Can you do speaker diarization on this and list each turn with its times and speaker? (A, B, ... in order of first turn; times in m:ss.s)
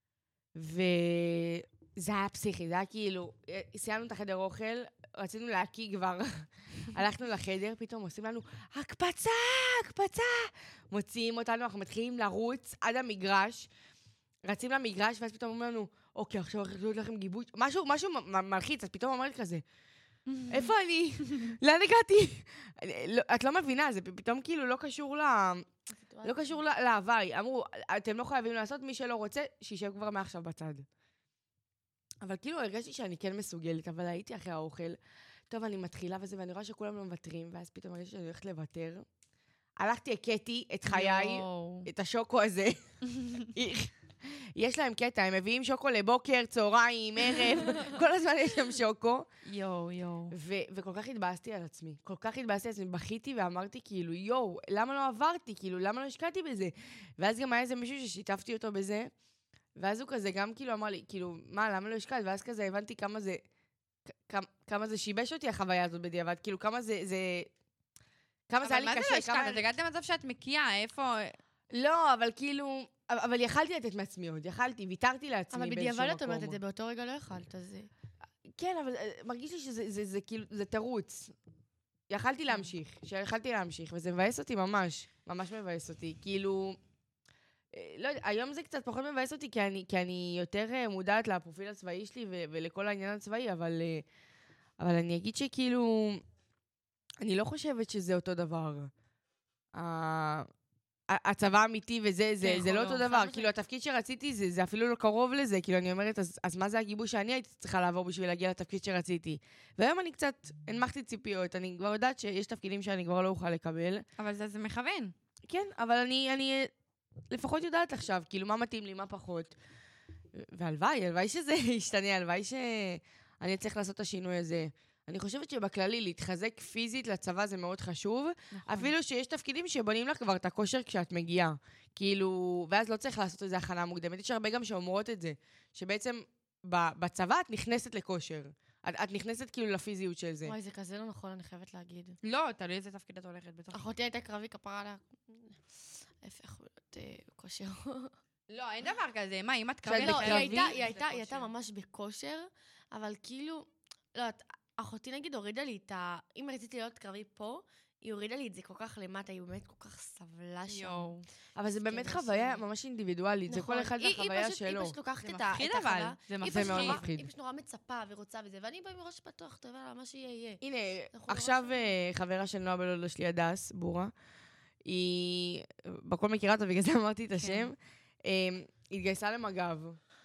0:00.6-0:13.7 A
0:14.5-0:19.6 A
0:20.3-0:20.7 B
0:20.5-0:25.7 A
0:25.9-0:26.6 C
0:26.2-0:30.9 A
0:32.2-0:35.0 A
0:35.5-0:39.1 A
0:39.8-0:49.3 A
0:40.9-0:41.9 B
0:49.4-0:50.4 B
0:50.3-0:59.1 A
0:59.8-1:03.4 A
1:04.1-1:07.5 A
1:08.5-1:09.6 A
1:08.6-1:11.4 B
1:11.7-1:16.6 A
1:15.5-1:17.9 C
1:18.5-1:21.3 A
1:22.1-1:26.8 A
1:27.7-1:34.1 A
1:34.8-1:36.2 A
1:37.2-1:38.9 A
1:39.7-1:40.5 A
1:41.1-1:54.1 A
1:42.4-1:43.1 B
1:43.0-1:43.5 C
1:54.2-1:55.1 B
1:55.5-1:56.7 A
1:57.3-1:59.6 A
2:00.3-2:20.6 A
2:08.5-2:08.9 B
2:20.4-2:22.2 C
2:22.2-2:23.8 B
2:23.7-2:28.1 C
2:28.5-2:31.5 B
2:29.8-2:30.7 A
2:30.0-2:41.1 C
2:40.7-2:41.3 B
2:41.6-2:45.0 A
2:41.8-2:42.6 C
2:43.5-2:51.9 C
2:45.2-2:47.0 B
2:46.4-2:47.3 A
2:50.6-2:54.1 A
2:54.8-3:00.0 A
2:57.4-2:57.7 B